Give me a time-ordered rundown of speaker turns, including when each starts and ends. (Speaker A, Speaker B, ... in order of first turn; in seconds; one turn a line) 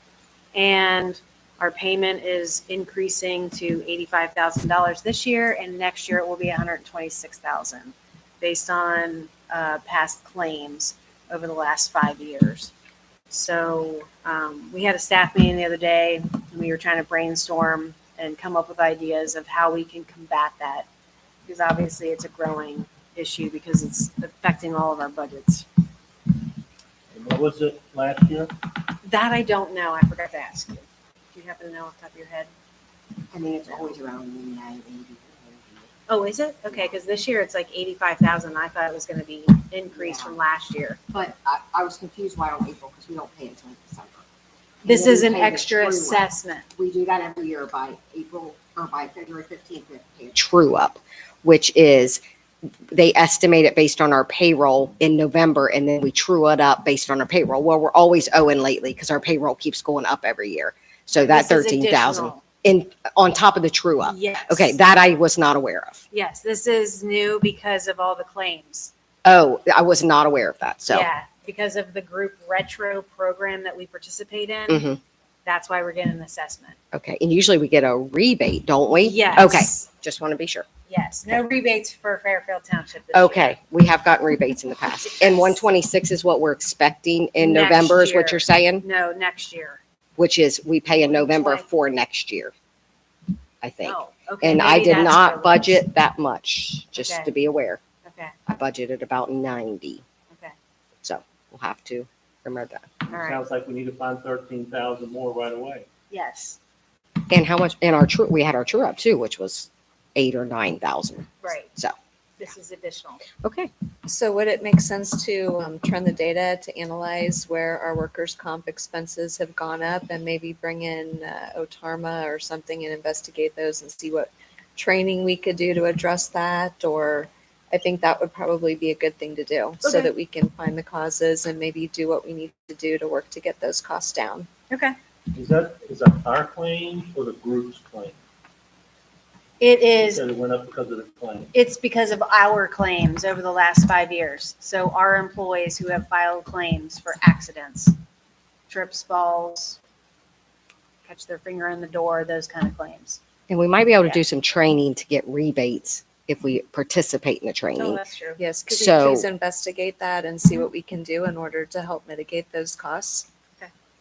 Speaker A: 0.5-12.7
Speaker A: 13.3-20.9
Speaker A: 21.4-25.7
Speaker B: 27.1-28.5
Speaker A: 28.9-32.5
Speaker C: 33.3-35.9
Speaker A: 36.1-41.0
Speaker C: 36.7-37.0
Speaker C: 39.9-40.4
Speaker C: 41.1-44.2
Speaker C: 44.8-46.2
Speaker A: 44.9-46.7
Speaker C: 46.8-52.2
Speaker C: 52.9-66.0
Speaker A: 61.2-62.4
Speaker A: 64.0-64.8
Speaker A: 66.1-68.9
Speaker C: 69.2-71.1
Speaker A: 70.9-74.9
Speaker C: 74.7-75.0
Speaker A: 75.5-76.8
Speaker C: 76.9-80.7
Speaker A: 79.0-79.9
Speaker A: 80.9-83.6
Speaker C: 83.1-88.8
Speaker A: 85.0-85.6
Speaker A: 87.4-89.8
Speaker C: 90.2-92.5
Speaker A: 91.0-91.7
Speaker C: 93.6-97.8
Speaker A: 93.8-95.8
Speaker A: 97.0-97.3
Speaker A: 98.0-98.3
Speaker C: 98.5-100.0
Speaker A: 100.3-100.5
Speaker C: 101.0-103.0
Speaker A: 103.1-103.4
Speaker B: 103.2-105.9
Speaker A: 106.1-106.6
Speaker C: 107.3-112.0
Speaker A: 111.4-111.7
Speaker A: 112.4-113.2
Speaker C: 113.4-113.7
Speaker D: 114.1-134.5
Speaker A: 129.8-130.1
Speaker B: 135.3-138.2
Speaker A: 139.6-140.2
Speaker B: 139.9-141.5
Speaker A: 141.5-148.0
Speaker A: 148.7-149.8
Speaker A: 151.1-153.2
Speaker C: 153.5-158.0
Speaker A: 157.8-158.4
Speaker D: 158.4-163.3
Speaker C: 158.7-159.3